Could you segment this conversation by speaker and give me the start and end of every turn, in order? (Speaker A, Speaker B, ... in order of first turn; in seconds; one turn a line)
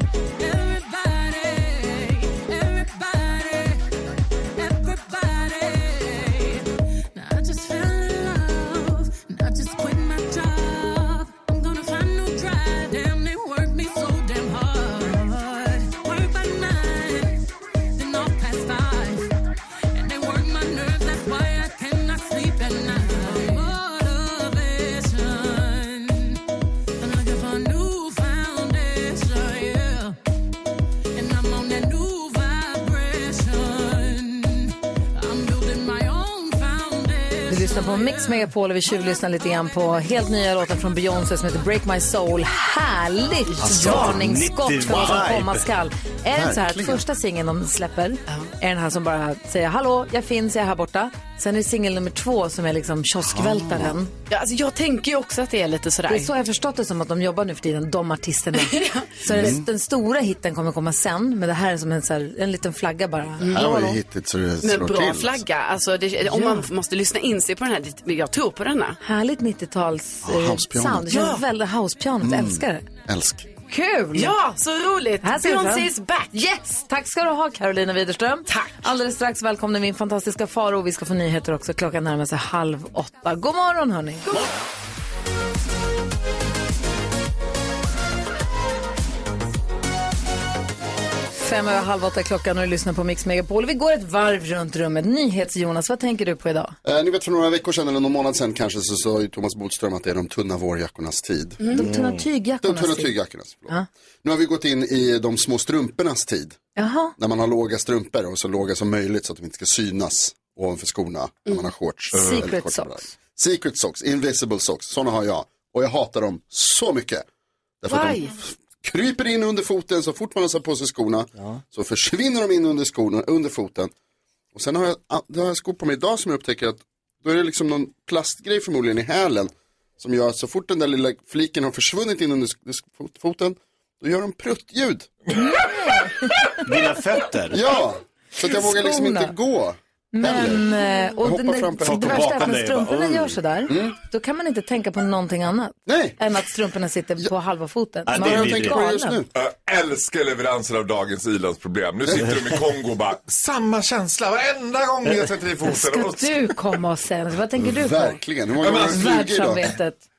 Speaker A: 0.4-3.9
Speaker A: 4.5-17.4
Speaker A: 17.9-19.3
Speaker A: 19.9-26.4
Speaker A: 27.0-30.2
Speaker A: 31.1-38.5
Speaker B: 37.5-54.1
Speaker C: 43.5-43.8
Speaker D: 43.6-45.7
Speaker E: 46.3-47.0
Speaker E: 53.3-54.0
Speaker C: 54.3-56.3
Speaker B: 56.1-64.0
Speaker C: 58.6-59.5
Speaker E: 59.3-59.6
Speaker C: 63.4-63.7
Speaker E: 63.5-65.4
Speaker C: 64.6-69.0
Speaker B: 66.3-66.6
Speaker B: 69.0-72.9
Speaker E: 70.2-71.2
Speaker C: 71.1-71.4
Speaker E: 72.2-73.4
Speaker B: 73.7-74.3
Speaker C: 74.1-76.4
Speaker B: 75.2-84.3
Speaker C: 78.5-78.8
Speaker B: 91.4-96.8
Speaker E: 96.8-101.7
Speaker B: 101.7-103.1
Speaker D: 101.8-102.2
Speaker E: 102.6-106.6
Speaker B: 106.8-107.1
Speaker E: 107.2-117.2
Speaker B: 112.1-113.1
Speaker E: 117.8-123.9
Speaker C: 117.9-118.3
Speaker E: 124.5-135.1
Speaker B: 135.3-136.7
Speaker F: 135.3-135.7
Speaker D: 136.6-137.6
Speaker E: 137.5-140.7
Speaker B: 138.4-139.3
Speaker B: 140.1-149.2
Speaker E: 141.2-142.5
Speaker D: 141.8-143.3
Speaker E: 143.7-143.9
Speaker E: 145.8-146.2
Speaker D: 148.1-148.8
Speaker E: 148.1-149.3
Speaker F: 149.3-156.5
Speaker B: 155.6-158.2
Speaker E: 157.6-159.7
Speaker F: 158.6-159.1
Speaker B: 158.7-160.0